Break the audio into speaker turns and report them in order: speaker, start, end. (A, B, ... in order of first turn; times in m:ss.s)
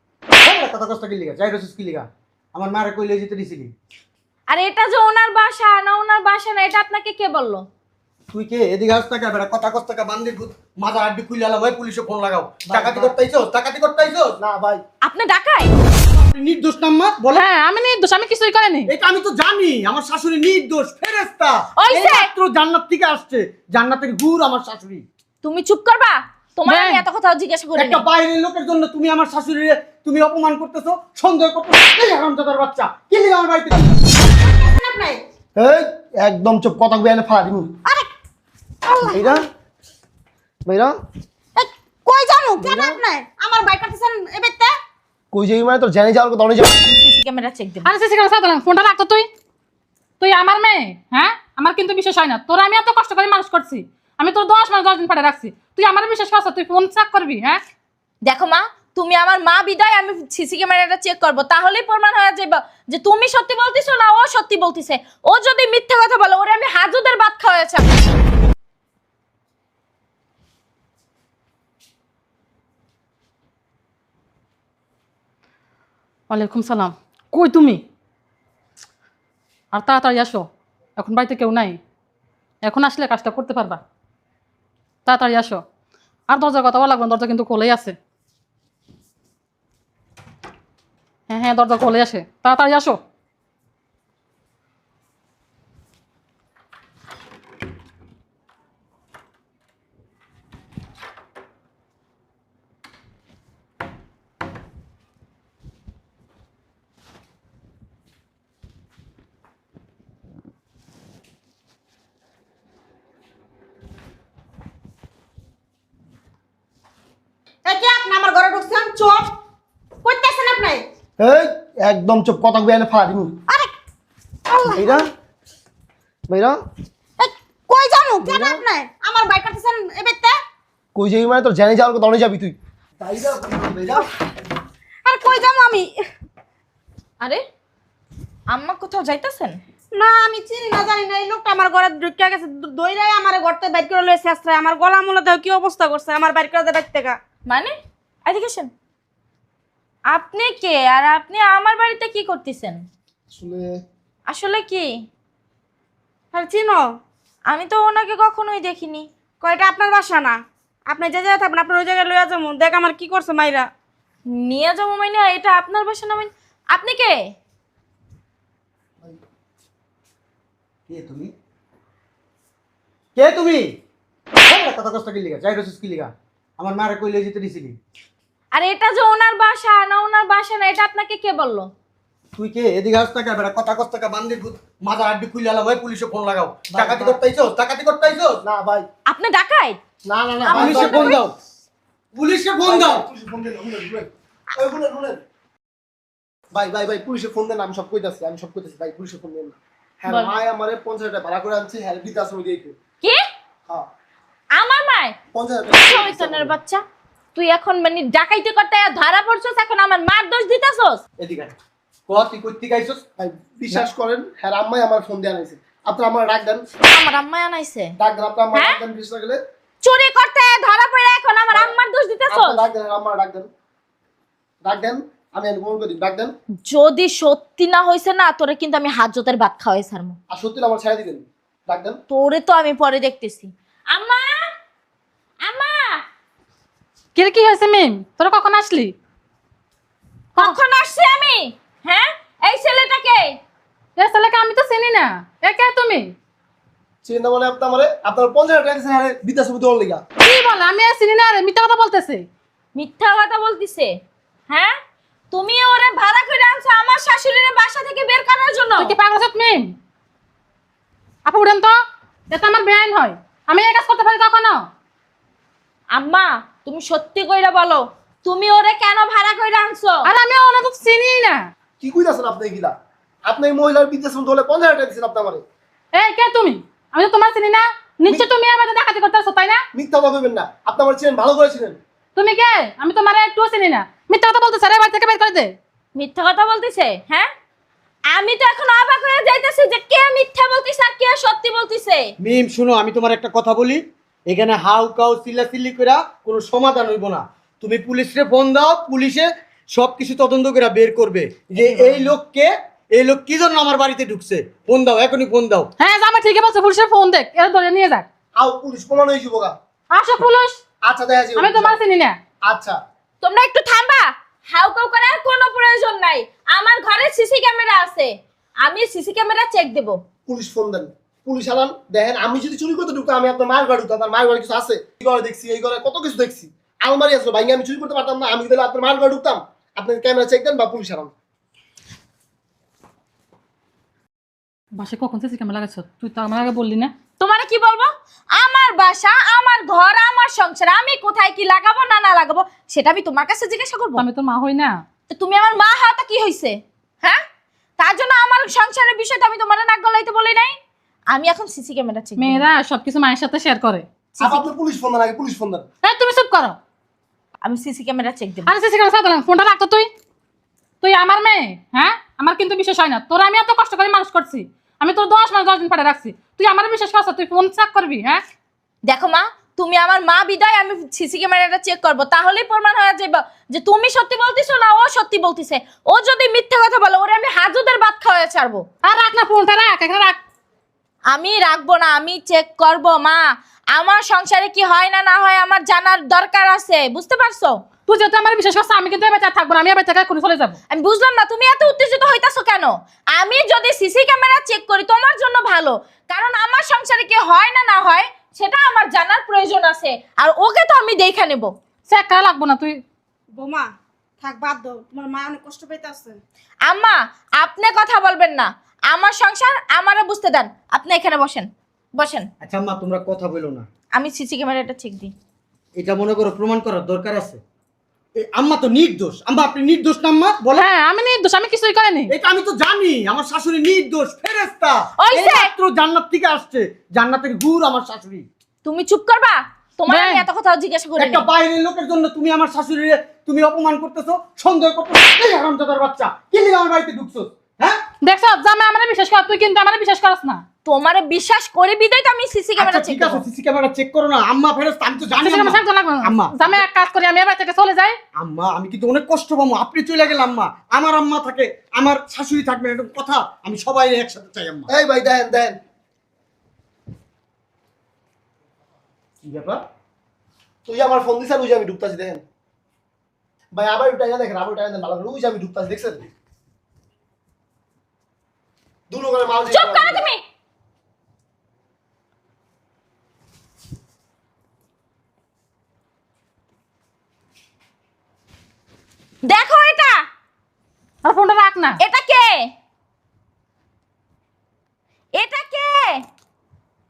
0:00.4-0:03.7 A
0:04.5-0:07.6 B
0:08.3-0:14.4 A
0:12.7-0:13.2 C
0:14.4-0:14.8 C
0:15.0-0:15.7 B
0:16.1-0:17.5 A
0:17.4-0:18.9 D
0:18.9-0:25.0 A
0:21.8-0:22.3 B
0:25.4-0:28.0 B
0:26.7-0:27.0 D
0:27.8-0:34.0 A
0:34.4-0:35.2 E
0:35.6-0:37.7 C
0:38.9-0:39.2 E
0:39.1-0:39.5 C
0:40.7-0:41.0 C
0:41.6-0:44.7 E
0:42.6-0:43.0 C
0:45.3-0:46.8 C
0:46.8-0:47.9 B
0:47.8-0:49.3 D
0:50.2-0:57.6 D
0:58.3-1:07.8 B
1:16.3-1:17.8 D
1:19.7-1:21.8 D
1:22.6-1:23.8 D
1:25.0-1:25.6 D
1:26.3-1:28.0 D
1:31.3-1:33.0 D
1:57.7-1:59.3 E
2:00.0-2:00.8 E
2:01.2-2:03.3 C
2:04.5-2:05.0 E
2:04.7-2:05.1 C
2:06.3-2:06.6 C
2:07.2-2:10.4 E
2:08.2-2:08.6 C
2:11.0-2:14.1 C
2:15.0-2:16.0 E
2:18.5-2:19.6 B
2:19.9-2:27.2 E
2:27.5-2:28.7 B
2:30.1-2:32.8 B
2:33.3-2:33.7 C
2:34.3-2:35.0 B
2:36.3-2:36.9 E
2:37.5-2:39.1 B
2:39.4-2:43.7 E
2:44.3-2:47.3 B
2:50.9-2:51.3 A
2:53.2-2:53.6 A
2:54.4-2:57.8 A
2:58.6-3:01.7 B
3:02.4-3:08.4 A
3:06.7-3:07.2 C
3:08.4-3:08.9 C
3:09.1-3:09.8 B
3:10.1-3:11.2 C
3:10.4-3:11.2 B
3:10.5-3:11.4 A
3:12.2-3:13.0 A
3:12.6-3:15.2 C
3:16.5-3:22.8 C
3:20.1-3:20.3 B
3:24.6-3:25.2 B
3:25.3-3:26.6 C
3:25.8-3:26.8 B
3:27.4-3:31.0 B
3:31.2-3:31.6 A
3:32.1-3:33.0 A
3:33.2-3:36.6 C
3:36.9-3:38.0 B
3:38.0-3:39.4 C
3:38.5-3:38.8 B
3:39.8-3:42.6 B
3:42.3-3:43.5 C
3:44.6-3:46.3 C
3:46.6-3:50.2 B
3:50.3-3:52.0 C
3:52.1-3:54.4 B
3:55.5-3:56.0 B
3:57.2-3:59.0 D
4:00.4-4:03.4 B
4:04.0-4:06.1 D
4:07.0-4:10.0 C
4:10.2-4:12.3 D
4:12.8-4:14.0 B
4:14.5-4:14.8 B
4:15.3-4:18.9 B
4:18.8-4:19.8 D
4:21.3-4:21.8 D
4:22.3-4:24.7 D
4:25.9-4:30.1 B
4:30.1-4:31.5 D
4:31.8-4:32.7 C
4:33.3-4:35.4 C
4:36.0-4:39.6 D
4:39.7-4:41.8 C
4:42.2-4:45.6 D
4:46.0-4:47.3 B
4:48.1-4:52.1 B
4:52.2-5:05.7 A
5:05.8-5:08.1 D
5:08.4-5:09.6 C
5:09.9-5:10.6 D
5:10.8-5:11.8 C
5:11.4-5:12.2 D
5:12.5-5:12.8 C
5:13.2-5:20.0 B
5:20.3-5:31.1 C
5:34.8-5:36.9 D
5:37.2-5:44.1 B
5:44.0-5:44.8 D
5:45.1-5:47.2 B
5:47.8-5:50.6 B
5:51.1-5:52.5 B
5:52.2-5:53.9 D
5:54.2-5:54.5 B
5:54.2-5:55.7 C
5:55.8-5:56.6 D
5:57.4-5:58.5 B
5:58.5-5:59.9 D
6:00.8-6:08.2 D
6:08.9-6:18.6 B
6:18.8-6:20.2 D
6:21.1-6:27.6 B
6:27.9-6:30.6 D
6:30.7-6:41.5 B
6:41.9-6:42.8 D
6:43.4-6:43.7 E
6:44.2-6:46.2 E
6:46.7-6:52.3 B
6:52.4-6:53.7 A
6:53.9-6:55.1 B
6:55.8-6:57.4 A
6:58.2-7:00.7 A
7:00.6-7:02.1 D
7:02.1-7:08.3 A
7:05.0-7:05.5 B
7:08.6-7:11.3 B
7:11.0-7:17.8 A
7:18.0-7:20.4 D
7:20.7-7:23.3 B
7:22.6-7:26.6 A
7:25.2-7:28.0 D
7:28.2-7:34.7 A
7:34.7-7:35.6 C
7:39.2-7:39.6 A
7:40.7-7:42.2 C
7:43.5-7:46.1 C
7:48.9-7:50.0 C
7:49.5-7:50.2 B
7:59.2-8:00.0 B
8:01.0-8:01.8 D
8:01.8-8:02.5 B
8:05.2-8:06.0 B